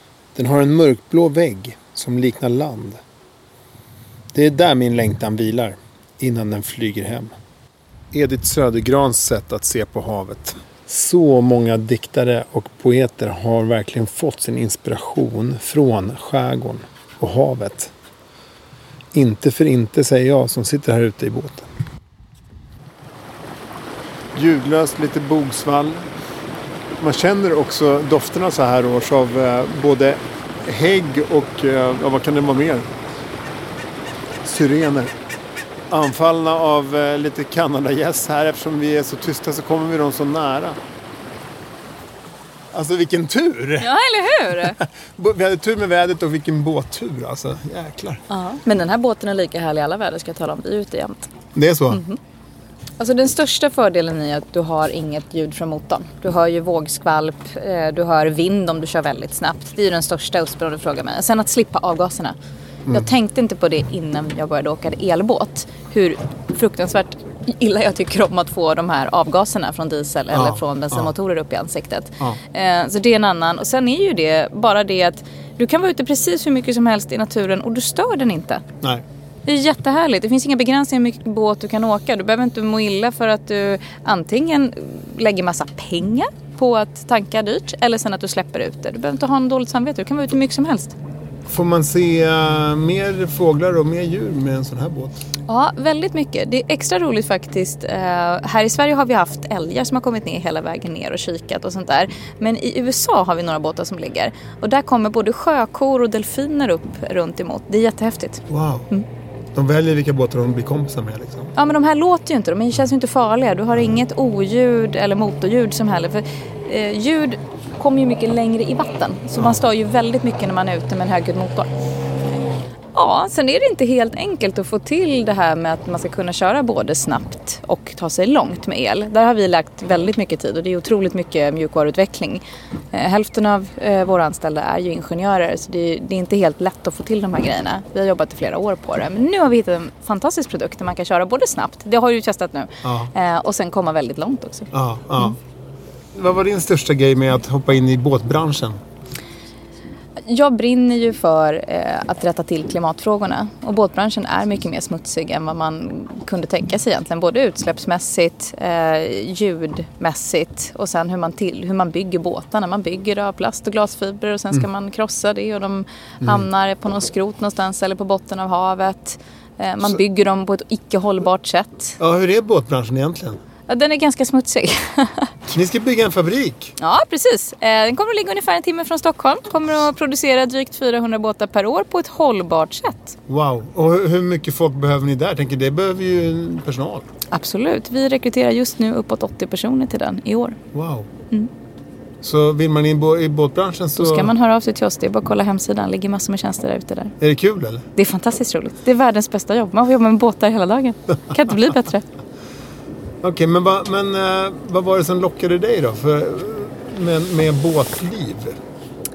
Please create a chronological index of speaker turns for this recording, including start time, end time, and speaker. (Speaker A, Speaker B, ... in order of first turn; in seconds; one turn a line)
Speaker A: 0.3-3.0
Speaker A: 4.3-7.3
Speaker A: 8.1-17.9
Speaker A: 19.1-21.7
Speaker A: 24.3-26.1
Speaker A: 27.0-32.9
Speaker A: 34.4-35.1
Speaker A: 35.9-40.8
Speaker A: 42.7-43.9
Speaker B: 43.8-44.8
Speaker A: 44.6-48.2
Speaker B: 48.3-51.3
Speaker A: 51.5-52.0
Speaker B: 51.9-52.2
Speaker B: 53.0-62.4
Speaker B: 62.9-78.6
Speaker A: 70.3-71.1
Speaker B: 79.5-90.9
Speaker A: 91.5-95.2
Speaker B: 95.5-109.0
Speaker A: 108.5-108.9
Speaker A: 109.5-111.5
Speaker B: 111.5-121.7
Speaker A: 119.4-119.6
Speaker B: 122.9-145.3
Speaker A: 142.8-143.1
Speaker A: 144.7-145.4
Speaker A: 146.1-148.8
Speaker B: 150.2-172.0
Speaker A: 172.0-173.4
Speaker B: 173.7-175.3
Speaker A: 175.5-176.7
Speaker B: 176.8-183.2
Speaker A: 183.3-187.1
Speaker B: 187.3-190.6
Speaker A: 190.7-191.1
Speaker A: 192.2-194.3
Speaker B: 194.0-197.1
Speaker A: 197.2-197.8
Speaker B: 197.9-202.0
Speaker A: 203.2-208.6